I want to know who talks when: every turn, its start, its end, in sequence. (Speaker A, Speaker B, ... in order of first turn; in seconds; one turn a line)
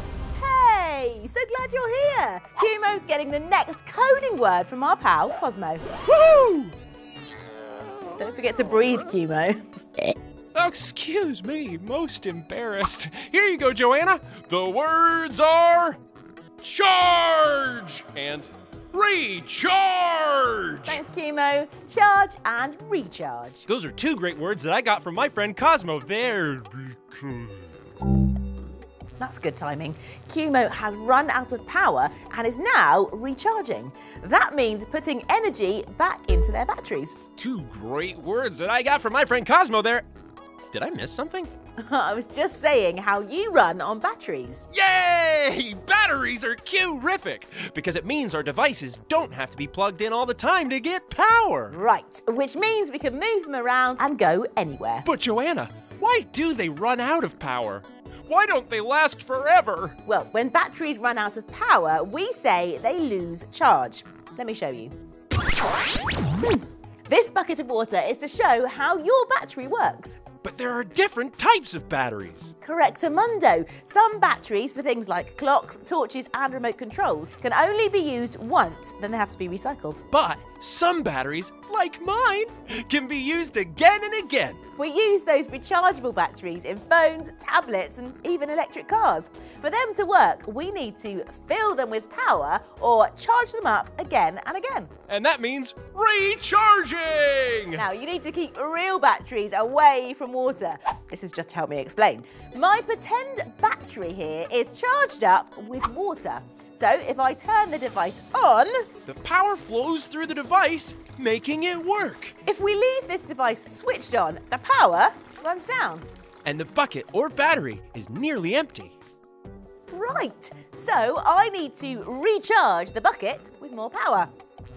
Speaker A: 0.3-5.9
Speaker B: 6.0-6.8
Speaker B: 7.7-8.3
Speaker A: 8.2-9.6
Speaker B: 10.5-16.0
Speaker B: 16.6-21.0
Speaker A: 20.9-23.6
Speaker B: 23.7-27.7
Speaker A: 29.2-37.1
Speaker B: 37.4-40.0
Speaker B: 40.7-41.5
Speaker A: 41.8-44.6
Speaker B: 44.7-51.7
Speaker A: 51.7-55.0
Speaker B: 55.0-60.0
Speaker A: 60.0-64.9
Speaker A: 66.4-70.2
Speaker B: 70.4-72.5
Speaker A: 72.6-80.0
Speaker B: 80.1-84.6
Speaker A: 84.8-94.9
Speaker B: 95.1-97.8
Speaker A: 97.8-108.9
Speaker B: 109.0-112.3
Speaker A: 112.4-116.0
Speaker B: 116.4-119.0
Speaker A: 119.9-124.3